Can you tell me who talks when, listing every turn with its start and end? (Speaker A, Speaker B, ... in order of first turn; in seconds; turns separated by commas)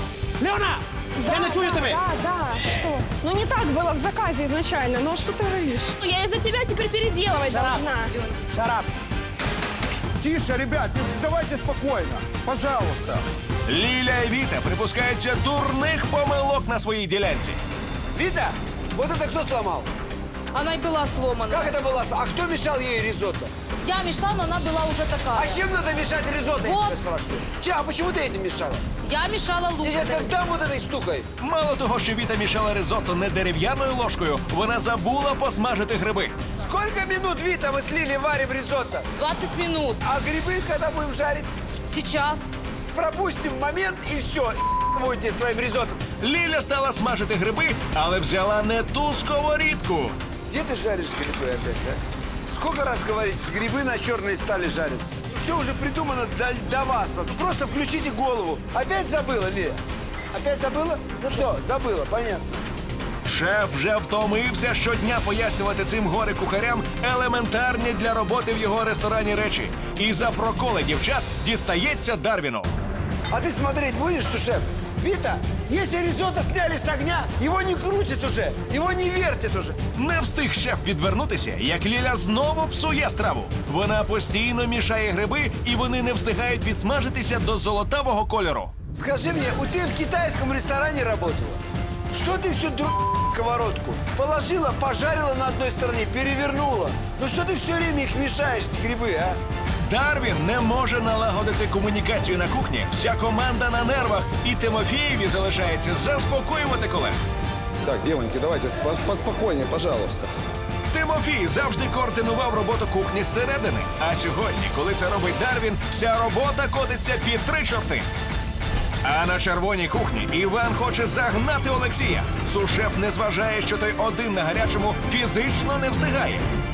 Speaker A: 0.4-2.0, Speaker B: 1.2-8.1, Speaker A: 7.4-7.9, Speaker A: 8.5-8.9, Speaker C: 10.2-13.2, Speaker D: 13.7-17.6, Speaker E: 18.1-19.9, Speaker F: 20.5-21.8, Speaker E: 21.5-23.5, Speaker F: 23.8-25.6, Speaker E: 25.3-28.8, Speaker F: 26.6-26.9, Speaker F: 29.0-30.3, Speaker E: 29.8-31.3, Speaker D: 31.4-36.4, Speaker E: 36.6-39.1, Speaker F: 39.1-40.0, Speaker E: 40.0-41.5, Speaker F: 41.9-42.5, Speaker E: 42.9-46.0, Speaker D: 46.2-50.1, Speaker E: 50.5-59.8, Speaker E: 60.3-62.4, Speaker D: 63.2-72.7, Speaker E: 73.3-79.8, Speaker D: 79.9-88.7, Speaker E: 88.9-91.6, Speaker E: 92.1-99.4, Speaker D: 99.8-107.2, Speaker C: 107.8-110.3, Speaker D: 110.9-118.1, Speaker D: 119.0-126.5